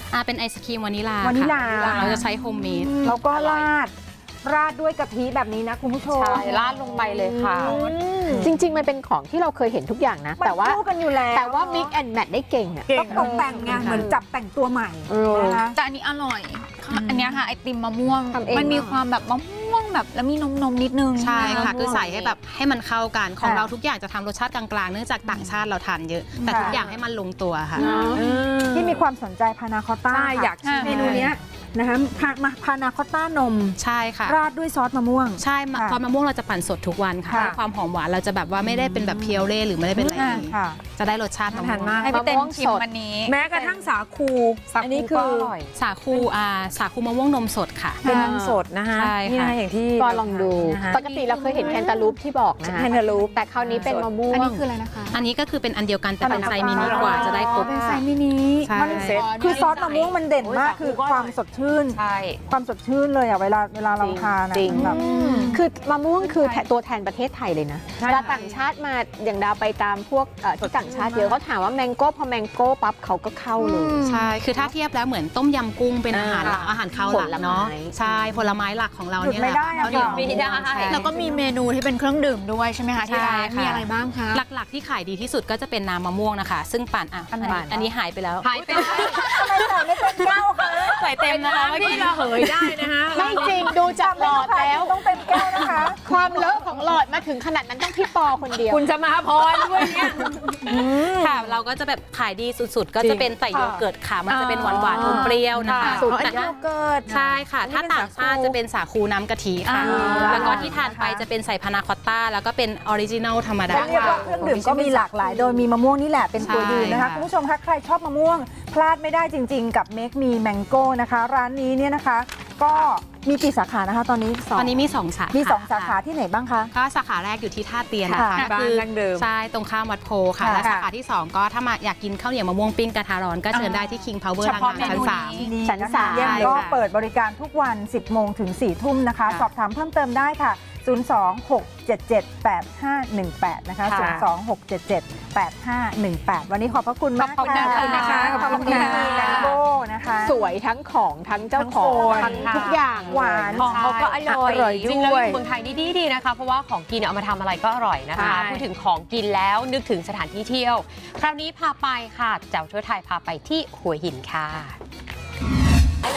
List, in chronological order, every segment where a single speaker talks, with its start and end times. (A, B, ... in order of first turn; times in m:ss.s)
0:00.1-0:03.0 A
0:01.2-0:03.9 B
0:01.7-0:02.2 C
0:03.2-0:03.7 D
0:04.4-0:06.6 B
0:06.1-0:08.5 C
0:06.3-0:14.2 E
0:06.4-0:07.7 D
0:07.5-0:08.5 B
0:10.4-0:12.0 B
0:12.9-0:15.8 B
0:12.9-0:14.0 C
0:15.1-0:15.6 E
0:15.7-0:21.8 F
0:18.3-0:19.0 E
0:21.2-0:27.9 A
0:21.4-0:22.3 E
0:23.4-0:23.7 B
0:26.4-0:26.8 F
0:26.4-0:26.8 B
0:27.8-0:28.2 E
0:27.8-0:36.0 B
0:27.8-0:28.2 F
0:27.8-0:29.0 C
0:30.1-0:31.3 C
0:30.6-0:31.2 F
0:33.8-0:34.4 A
0:35.4-0:42.0 A
0:37.2-0:37.6 B
0:37.3-0:37.6 C
0:38.8-0:39.3 C
0:40.1-0:40.4 F
0:40.2-0:40.8 B
0:41.5-0:42.2 C
0:42.0-0:43.9 F
0:42.0-0:42.8 E
0:43.2-0:45.5 C
0:44.7-0:45.7 D
0:45.7-0:48.1 A
0:48.0-0:48.4 F
0:48.0-0:51.0 C
0:48.1-0:48.6 E
0:48.9-0:49.6 A
0:50.0-0:54.6 E
0:50.9-0:52.2 F
0:52.6-0:54.2 C
0:54.3-0:55.2 F
0:55.1-0:58.0 A
0:56.2-0:57.4 B
0:56.3-1:00.0 F
0:56.6-0:57.7 C
0:58.6-0:59.2 A
0:58.7-1:05.0 B
0:59.2-1:01.3 C
1:01.9-1:02.4 D
1:04.0-1:14.0 E
1:04.7-1:05.6 F
1:04.8-1:05.5 C
1:06.2-1:06.6 F
1:08.0-1:08.4 C
1:08.2-1:08.6 A
1:10.6-1:11.4 C
1:13.6-1:14.3 F
1:14.0-1:20.4 A
1:16.1-1:18.2 E
1:19.2-1:21.4 B
1:19.7-1:24.4 F
1:20.0-1:21.1 D
1:23.0-1:28.5 A
1:27.4-1:27.6 F
1:27.4-1:27.8 C
1:28.4-1:33.8 C
1:28.5-1:29.1 D
1:28.6-1:31.1 B
1:31.2-1:38.9 E
1:31.7-1:32.4 D
1:33.8-1:36.6 B
1:35.5-1:36.5 C
1:38.5-1:41.6 C
1:40.7-1:46.5 A
1:43.0-1:48.6 C
1:45.8-1:46.1 F
1:45.8-1:46.4 E
1:47.1-1:54.3 A
1:49.7-1:50.4 F
1:49.7-1:50.7 C
1:49.8-1:51.2 B
1:53.7-2:06.7 B
1:53.7-1:55.6 C
1:56.4-1:57.3 A
2:04.5-2:06.0 A
2:06.7-2:15.5 A
2:08.0-2:08.4 B
2:08.3-2:09.3 C
2:10.4-2:10.7 B
2:10.6-2:10.8 C
2:13.5-2:14.0 F
2:14.4-2:15.2 C
2:14.7-2:15.5 F
2:15.2-2:30.4 B
2:15.6-2:16.6 E
2:16.1-2:16.8 A
2:23.8-2:24.2 C
2:27.2-2:29.6 C
2:27.4-2:29.2 F
2:27.8-2:29.5 E
2:30.2-2:33.7 E
2:31.6-2:33.7 B
2:31.8-2:32.5 C
2:32.4-2:33.0 D
2:33.5-2:44.8 D
2:33.6-2:35.4 C
2:38.1-2:38.7 C
2:38.2-2:38.5 E